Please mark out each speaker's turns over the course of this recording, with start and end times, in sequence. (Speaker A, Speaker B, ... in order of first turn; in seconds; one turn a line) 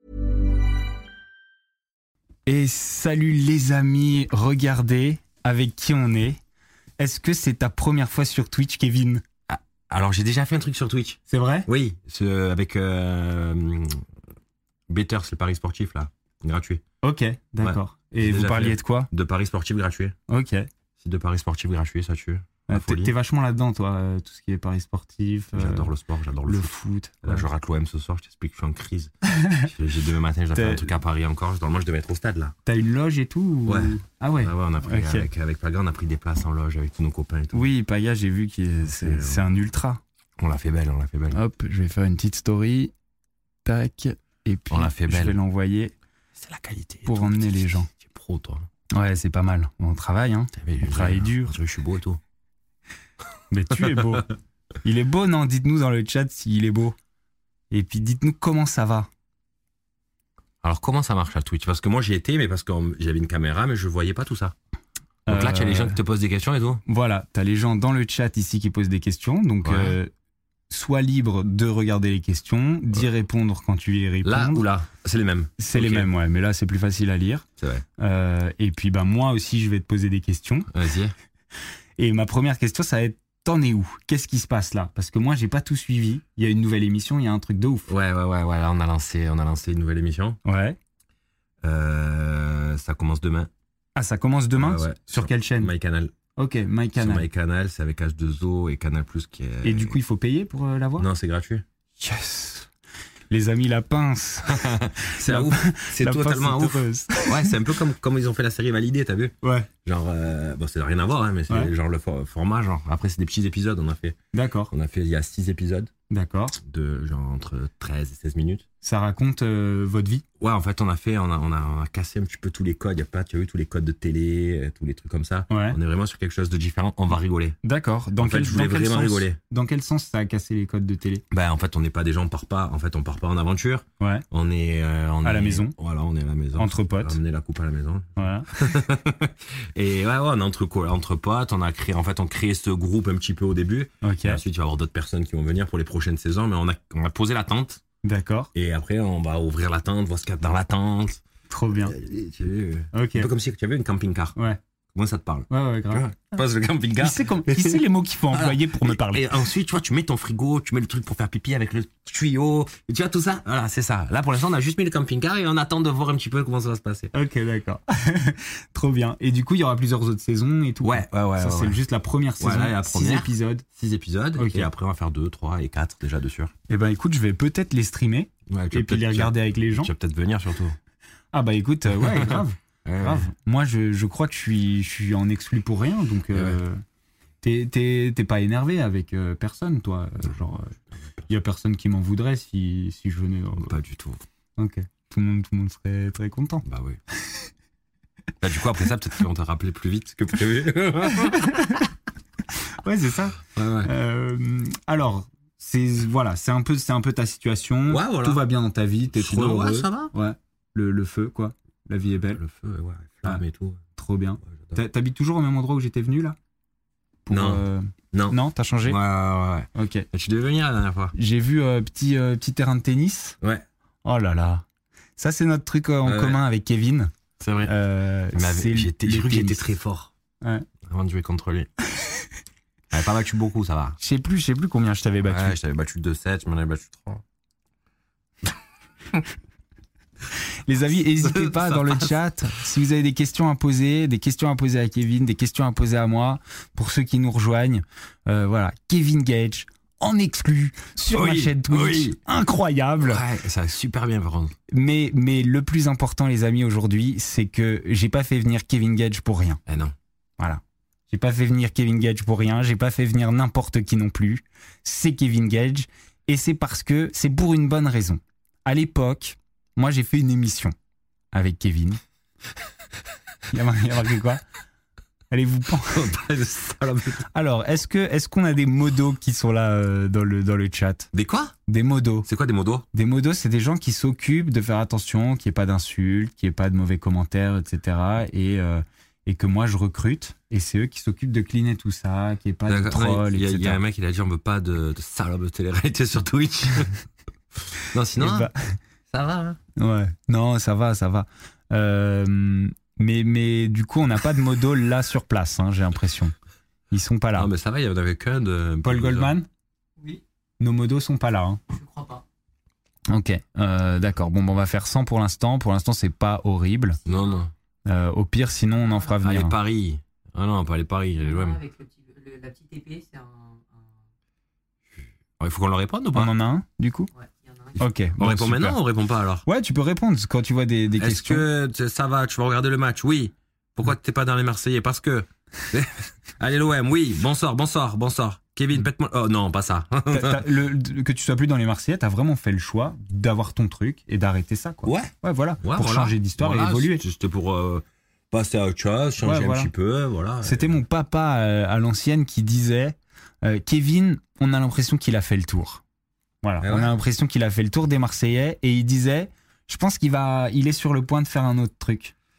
Speaker A: 2.5-6.4
Speaker A: 7.0-9.2
Speaker B: 9.5-14.0
Speaker A: 11.3-11.7
Speaker B: 14.9-16.8
Speaker A: 17.0-19.1
Speaker B: 17.6-20.1
Speaker A: 20.3-20.7
Speaker B: 21.0-23.1
Speaker A: 22.7-25.9
Speaker B: 25.5-32.5
Speaker A: 26.5-27.5
Speaker A: 29.3-29.7
Speaker A: 30.5-30.9
Speaker A: 32.7-35.3
Speaker B: 33.7-37.7
Speaker A: 37.5-40.0
Speaker B: 38.8-39.5
Speaker B: 40.4-41.4
Speaker A: 41.3-42.9
Speaker A: 43.6-45.9
Speaker B: 44.7-45.4
Speaker B: 46.3-48.7
Speaker A: 47.1-47.9
Speaker A: 48.9-51.5
Speaker B: 50.5-52.2
Speaker A: 53.5-54.3
Speaker B: 53.8-54.1
Speaker A: 54.8-57.0
Speaker A: 57.7-59.1
Speaker B: 60.6-64.5
Speaker A: 65.3-66.0
Speaker B: 65.3-66.8
Speaker A: 66.9-70.1
Speaker B: 69.6-70.0
Speaker A: 70.7-74.7
Speaker B: 74.2-76.1
Speaker A: 75.6-77.5
Speaker B: 77.6-77.8
Speaker A: 78.0-80.7
Speaker B: 80.7-81.1
Speaker A: 82.0-87.9
Speaker B: 87.9-90.4
Speaker A: 90.5-90.8
Speaker B: 91.6-93.5
Speaker A: 94.0-95.7
Speaker B: 94.6-96.1
Speaker A: 96.4-97.3
Speaker B: 97.0-100.0
Speaker A: 99.6-101.1
Speaker B: 101.0-101.6
Speaker A: 102.0-102.7
Speaker A: 103.3-107.6
Speaker B: 104.5-114.2
Speaker A: 109.4-109.7
Speaker A: 114.3-114.7
Speaker B: 114.7-115.9
Speaker A: 116.1-116.6
Speaker B: 116.6-118.7
Speaker A: 118.8-120.2
Speaker B: 120.4-127.6
Speaker A: 125.5-125.8
Speaker A: 127.6-131.2
Speaker B: 128.2-129.4
Speaker B: 131.3-147.8
Speaker A: 134.0-134.2
Speaker A: 135.2-135.8
Speaker A: 136.6-137.2
Speaker A: 138.2-138.5
Speaker A: 144.0-144.4
Speaker A: 148.0-148.5
Speaker B: 148.5-151.2
Speaker A: 151.5-151.9
Speaker B: 151.8-154.3
Speaker A: 152.9-153.3
Speaker B: 154.9-167.1
Speaker A: 155.5-156.1
Speaker A: 157.0-159.2
Speaker A: 167.1-173.6
Speaker B: 170.8-171.8
Speaker B: 172.4-176.5
Speaker A: 174.3-174.7
Speaker A: 176.7-179.9
Speaker B: 178.5-180.8
Speaker A: 181.3-186.8
Speaker B: 181.9-183.3
Speaker A: 187.4-190.7
Speaker B: 190.9-191.3
Speaker A: 191.3-193.7
Speaker B: 193.6-194.2
Speaker A: 194.6-196.7
Speaker B: 196.7-197.0
Speaker B: 198.4-201.8
Speaker A: 201.2-201.9
Speaker A: 202.8-212.4
Speaker B: 203.6-203.9
Speaker B: 207.9-208.4
Speaker B: 209.1-210.1
Speaker B: 212.3-213.8
Speaker A: 214.0-216.3
Speaker A: 217.2-219.0
Speaker B: 217.3-221.2
Speaker A: 219.8-220.1
Speaker A: 221.2-223.4
Speaker A: 224.1-224.7
Speaker A: 225.2-227.1
Speaker B: 226.0-226.4
Speaker B: 227.4-227.7
Speaker A: 227.7-229.6
Speaker B: 228.3-230.1
Speaker A: 230.4-230.7
Speaker B: 230.8-231.7
Speaker B: 232.9-234.0
Speaker A: 234.0-235.6
Speaker B: 235.3-237.2
Speaker A: 240.7-253.2
Speaker B: 241.2-242.1
Speaker B: 251.1-252.2
Speaker B: 253.0-254.6
Speaker A: 254.7-259.6
Speaker B: 259.6-259.9
Speaker A: 260.4-270.7
Speaker A: 271.3-272.0
Speaker A: 273.5-274.4
Speaker A: 275.3-276.1
Speaker B: 275.9-277.3
Speaker A: 277.3-281.1
Speaker B: 281.1-281.6
Speaker A: 281.7-282.3
Speaker B: 282.2-282.8
Speaker A: 282.9-293.8
Speaker B: 292.7-297.0
Speaker B: 297.8-298.5
Speaker A: 298.2-298.8
Speaker B: 299.1-299.6
Speaker A: 299.8-306.3
Speaker A: 306.9-307.5
Speaker B: 307.3-309.3
Speaker A: 308.8-309.5
Speaker A: 310.6-311.6
Speaker C: 311.7-312.2
Speaker A: 313.1-317.0
Speaker C: 317.0-317.4
Speaker B: 317.1-317.5
Speaker A: 317.9-319.6
Speaker C: 318.9-319.1
Speaker B: 319.2-321.6
Speaker C: 321.2-324.0
Speaker B: 325.4-326.3
Speaker A: 326.1-327.1
Speaker C: 327.1-327.8
Speaker B: 327.8-329.4
Speaker A: 327.8-328.8
Speaker A: 329.4-331.4
Speaker B: 331.0-340.5
Speaker A: 340.1-347.0
Speaker B: 344.8-350.8
Speaker A: 349.2-349.7
Speaker A: 350.4-355.8
Speaker A: 356.4-362.1
Speaker B: 356.6-357.0